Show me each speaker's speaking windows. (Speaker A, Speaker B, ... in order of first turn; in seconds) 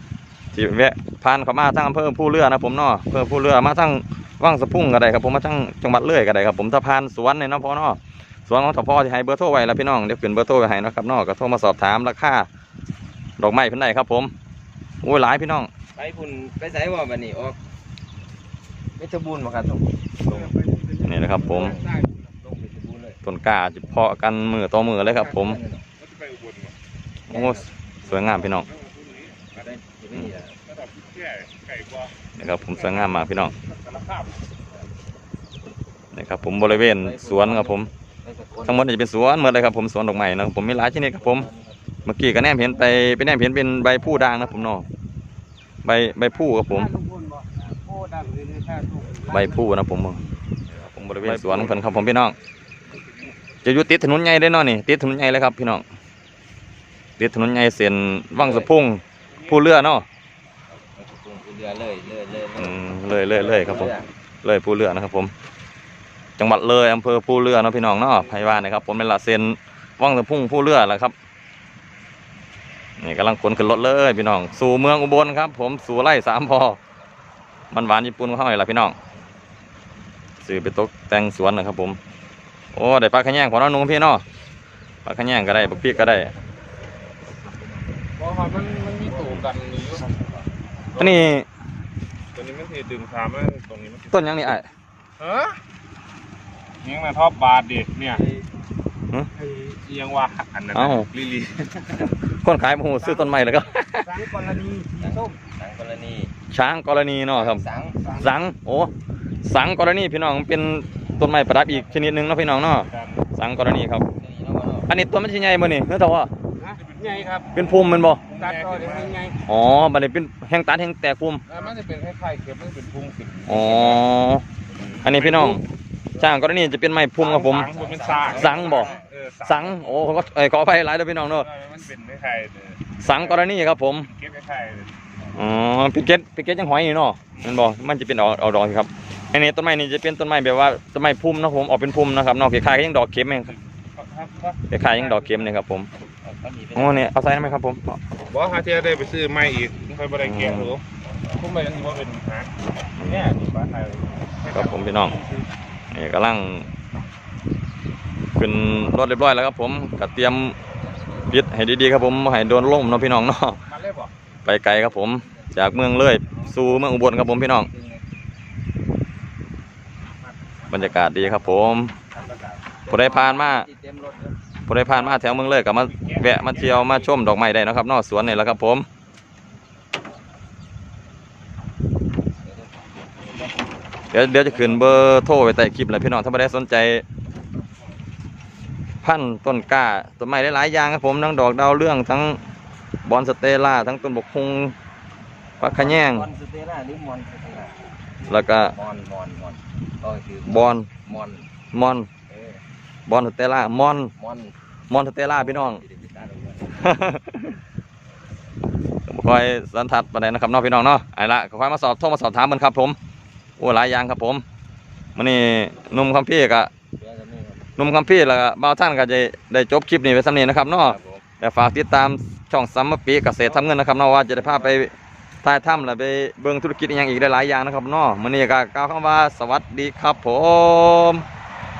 Speaker A: 0.5-12.5, 13.4-14.3, 15.0-15.7, 21.0-21.8, 23.2-25.6, 27.3-28.7, 32.3-33.5, 36.1-37.9, 38.6-41.5, 42.0-44.9, 45.8-46.9, 49.3-50.2, 50.8-52.3, 53.6-55.8, 57.2-60.0, 62.6-65.3, 66.4-71.1, 73.0-76.8, 77.7-79.0, 80.4-82.0, 82.7-84.2, 85.0-86.3, 91.0-91.5, 94.1-94.7, 100.7-101.1, 102.2-104.2, 106.5-107.6, 108.2-108.9, 109.4-114.1, 114.9-116.3, 117.5-118.2, 119.4-121.4, 123.5-124.4, 125.0-125.6, 126.1-127.7, 128.3-131.5, 133.0-134.1, 135.3-143.5, 144.7-145.9, 146.7-148.0, 150.2-150.7, 153.0-153.3, 154.5-155.2, 155.9-156.7, 158.3-160.6, 161.3-163.6, 164.4-167.7, 170.7-171.9, 172.9-173.7, 174.7-178.8, 184.1-187.0, 189.0-192.4, 193.0-194.7, 195.6-196.3, 198.3-198.7, 200.4-200.9, 201.7-202.1, 203.1-204.1, 204.9-205.8, 206.8-207.6, 209.1-213.0, 213.6-214.4, 215.2-216.7, 217.8-224.9, 225.4-231.2
Speaker B: 15.9-17.6, 19.0-20.5, 21.3-23.2, 25.0-25.9, 27.3-27.7, 29.5-30.6, 36.8-38.9, 41.0-42.0, 58.4-58.7, 61.0-64.1, 85.8-86.3, 105.0-106.3, 107.3-108.0, 114.2-114.9, 127.7-129.1, 146.2-147.3, 165.1-165.5, 167.5-168.0, 172.8-174.3, 182.4-182.7, 184.4-185.1, 195.7-197.8, 198.6-201.5, 202.3-202.6, 204.1-204.5, 205.3-207.0, 217.0-217.7, 220.8-221.2, 224.1-224.8
Speaker C: 20.3-21.8, 46.3-49.7, 99.3-99.8, 103.0-105.3, 108.0-108.3, 116.6-117.5, 118.3-119.4
Speaker D: 26.0-26.7, 28.6-29.5, 30.6-32.1, 32.6-34.4, 88.2-90.1, 90.9-91.3, 92.3-94.1, 95.2-95.6, 96.8-98.2, 99.8-102.1, 112.9-113.3, 116.8-117.5, 118.2-119.2, 121.5-124.0, 124.7-125.6, 127.2-130.2, 131.2-133.4, 134.1-134.9, 137.3-137.6, 143.9-145.4, 148.3-152.5, 153.0-155.1, 163.7-164.1, 170.4-170.9, 172.1-172.6, 175.7-177.1